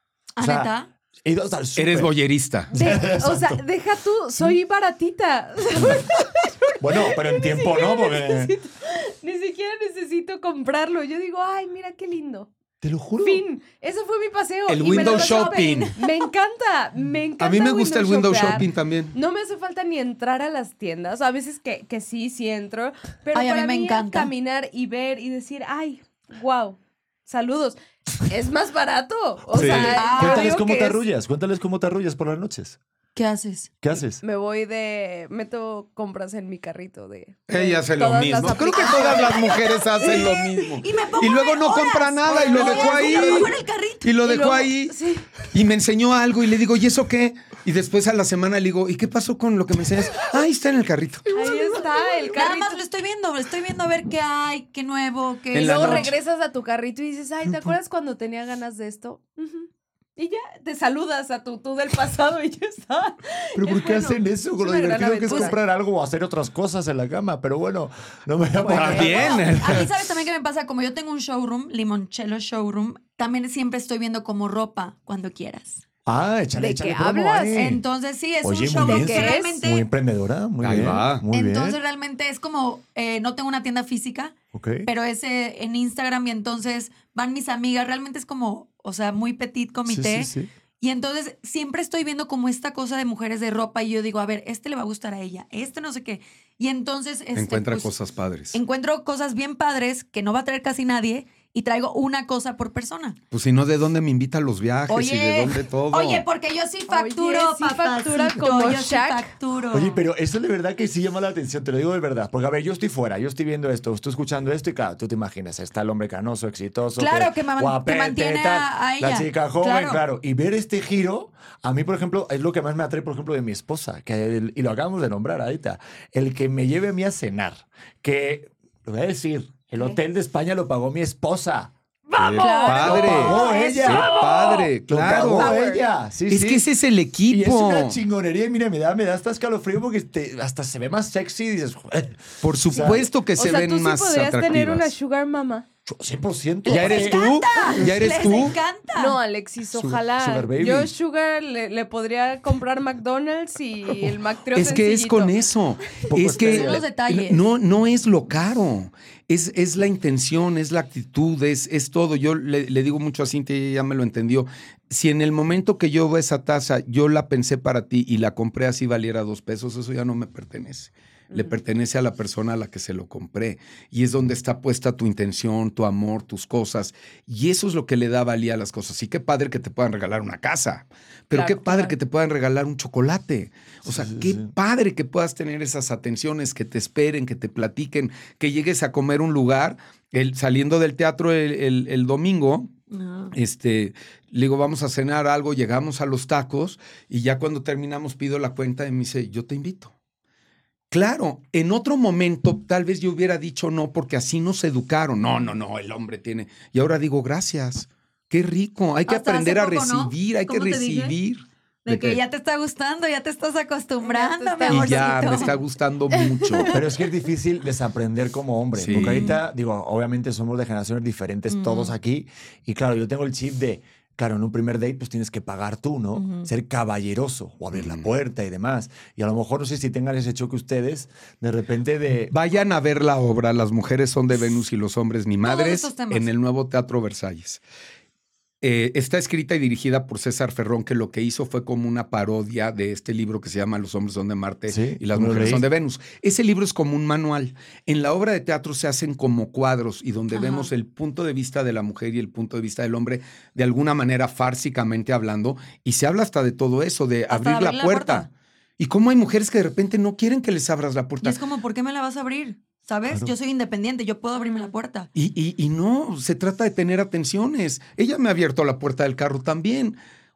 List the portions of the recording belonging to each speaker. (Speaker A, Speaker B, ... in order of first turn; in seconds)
Speaker A: 0.4-0.9, 14.8-16.0, 23.3-24.3, 29.6-30.6, 33.1-33.7, 38.8-44.7, 51.3-56.1, 69.4-75.8, 77.5-79.9, 81.3-97.9, 98.5-103.2, 104.9-110.0, 117.0-120.0, 132.1-134.7, 135.4-135.7, 146.7-149.2, 156.4-157.4, 192.9-193.3, 209.1-211.2, 211.8-215.5, 218.9-219.4, 221.5-221.9, 226.1-226.5, 235.4-236.3, 250.3-250.7, 257.3-258.3, 261.2-265.1
Speaker B: 0.4-2.1, 2.7-3.6, 4.3-4.6, 5.8-6.0, 6.8-8.5, 12.8-13.4, 29.7-32.8, 33.8-34.2, 57.5-57.7, 63.5-69.9, 76.0-77.8, 78.4-81.8, 84.5-84.9, 89.9-90.5, 109.7-131.7, 132.4-134.2, 134.9-136.7, 137.3-143.1, 145.8-148.2, 149.8-150.9, 156.1-156.8, 183.8-184.5, 216.7-232.3, 244.7-245.7
Speaker C: 1.8-2.7, 14.7-15.9, 17.4-19.1, 29.5-29.9, 37.5-44.9, 45.5-51.2, 55.5-56.1, 68.7-69.9, 80.6-81.2, 97.3-98.5, 103.3-106.2, 132.2-135.5, 136.3-138.0, 142.4-144.9, 146.7-148.6, 154.5-192.7, 193.3-199.9, 200.9-212.2, 214.7-216.7, 218.8-219.3, 227.7-228.1, 232.3-237.6, 238.6-258.3, 258.8-261.4, 265.1-270.0
Speaker D: 2.7-12.5, 13.2-31.0, 34.2-39.6, 42.4-43.4, 44.9-45.3, 51.3-52.8, 55.6-65.6, 68.6-69.4, 76.5-77.7, 78.7-79.6, 106.9-109.3, 142.7-145.7, 148.9-155.4, 181.3-181.9, 214.0-215.6, 216.3-216.7, 264.4-264.7